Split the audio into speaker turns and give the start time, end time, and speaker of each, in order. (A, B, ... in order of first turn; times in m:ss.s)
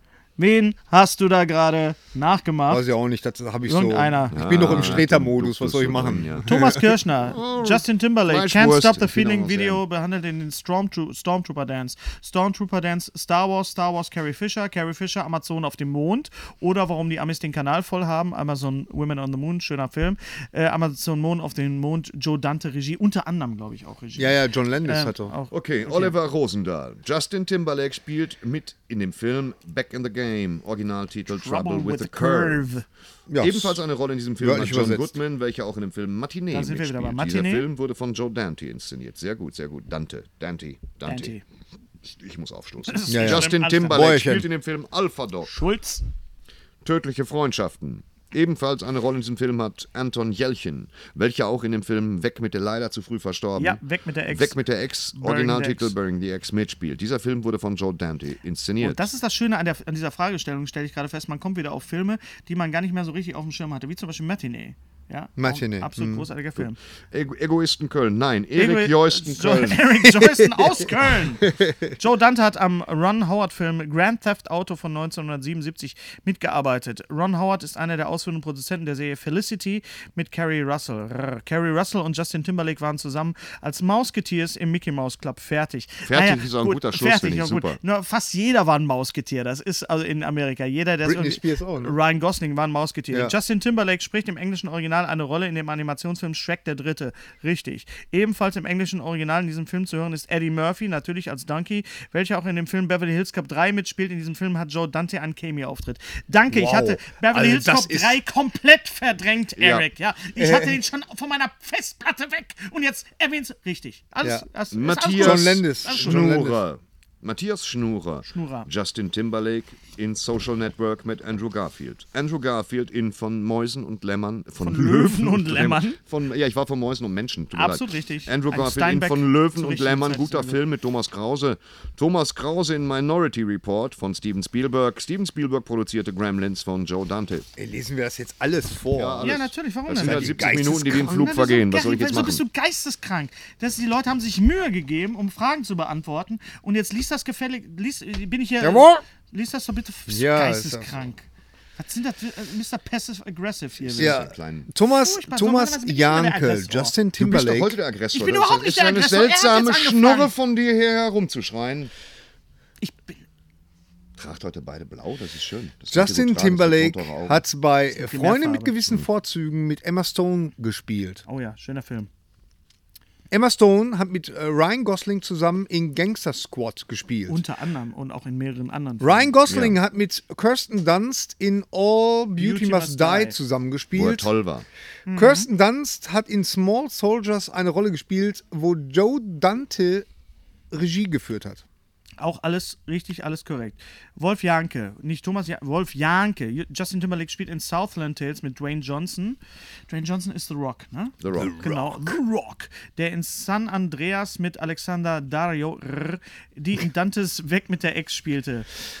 0:00.4-0:02.8 A
0:02.7-0:06.8 B
0:03.6-0:04.3 A
0:04.3-0:09.8 C
0:06.4-0:26.1 A
0:24.2-0:25.3 B
0:25.5-0:32.6 C
0:31.3-0:32.8 A
0:33.3-0:33.8 B
0:33.4-0:41.3 C
0:34.4-0:35.1 B
0:36.5-0:37.7 A
0:41.0-0:41.4 A
0:42.0-0:45.5 C
0:42.9-0:44.3 A
0:43.1-0:44.4 B
0:45.5-0:46.0 A
0:46.8-0:59.0 C
0:53.6-0:54.6 A
0:55.1-0:55.9 A
0:58.8-1:06.8 A
1:05.4-1:06.2 B
1:07.1-1:10.1 C
1:08.6-1:56.2 A
1:11.4-1:11.9 B
1:26.0-1:27.8 C
1:31.0-1:32.0 B
1:46.5-1:48.2 B
1:49.6-1:49.8 C
1:50.4-1:50.7 B
1:54.7-2:17.5 C
1:55.2-1:56.6 B
1:58.3-1:58.7 A
2:04.6-2:06.0 A
2:07.5-2:10.6 A
2:17.6-2:19.3 B
2:18.9-2:22.4 C
2:19.2-2:31.2 A
2:20.0-2:21.3 B
2:28.6-2:29.0 B
2:30.1-2:30.9 B
2:31.8-2:34.2 A
2:33.8-2:34.7 C
2:34.0-2:37.8 B
2:34.8-2:36.9 A
2:37.2-2:41.9 C
2:38.1-2:40.3 A
2:42.8-2:43.2 A
2:44.2-2:47.4 C
2:45.9-2:51.2 B
2:48.0-2:48.7 A
2:51.2-2:52.1 A
2:53.3-2:57.4 B
2:57.3-2:59.3 A
2:59.0-3:04.3 B
2:59.5-2:59.8 C
3:02.4-3:03.4 A
3:03.9-3:04.6 C
3:05.0-3:05.5 A
3:05.1-3:10.1 B
3:10.7-3:11.6 B
3:12.2-3:28.7 A
3:21.2-3:21.6 C
3:21.4-3:22.1 B